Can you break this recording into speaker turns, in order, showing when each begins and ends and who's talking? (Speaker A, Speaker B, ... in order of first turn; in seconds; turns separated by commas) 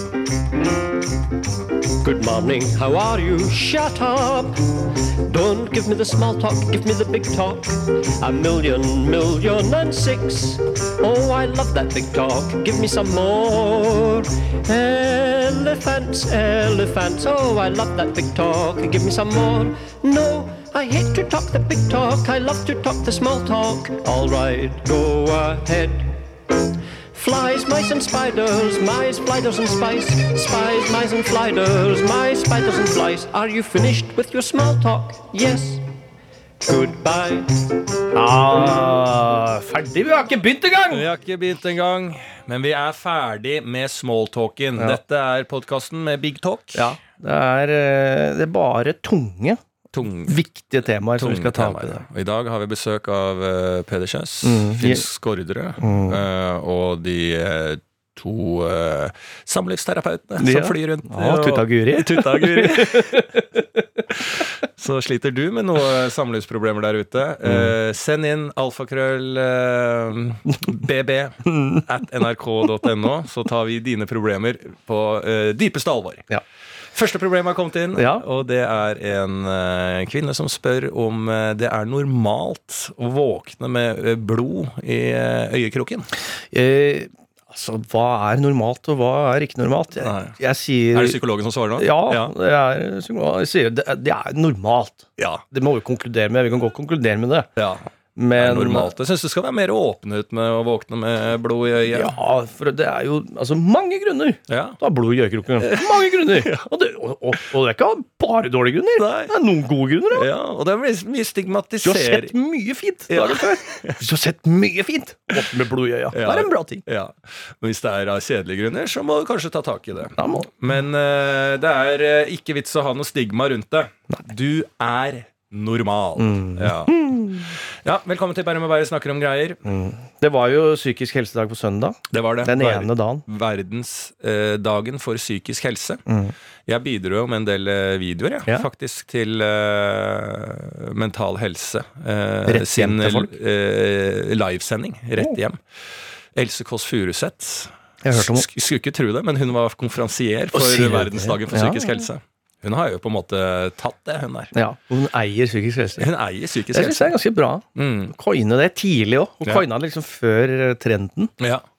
Speaker A: 2.0-26.2, Speaker A: 27.1-35.8, Speaker A: 36.6-37.5, Speaker B: 38.1-41.0, Speaker C: 40.9-46.9, Speaker B: 46.7-49.6, Speaker C: 49.9-50.4, Speaker B: 50.3-52.0, Speaker C: 51.1-63.3, Speaker B: 54.4-55.0, Speaker B: 55.8-56.2, Speaker B: 60.4-63.6, Speaker C: 64.1-76.2, Speaker B: 67.4-67.7, Speaker C: 76.9-86.1, Speaker B: 77.9-78.2, Speaker B: 86.5-91.2, Speaker C: 90.0-90.3, Speaker C: 90.9-92.3, Speaker B: 91.8-97.5, Speaker C: 97.5-97.8, Speaker B: 98.2-98.9, Speaker C: 98.4-102.1, Speaker B: 101.9-110.3, Speaker C: 104.5-104.8, Speaker C: 105.6-106.6, Speaker C: 109.0-109.3, Speaker C: 110.1-112.3, Speaker B: 111.8-116.8, Speaker C: 113.1-114.0, Speaker C: 116.1-129.6, Speaker B: 120.2-120.5, Speaker B: 126.2-127.5, Speaker B: 129.6-133.2, Speaker C: 132.1-136.0, Speaker B: 136.1-136.3, Speaker C: 136.7-154.5, Speaker B: 142.5-143.3, Speaker B: 148.0-148.4, Speaker B: 150.5-152.0, Speaker B: 154.5-156.1, Speaker C: 156.0-157.1, Speaker B: 156.7-161.3, Speaker C: 157.8-158.1, Speaker C: 161.4-161.7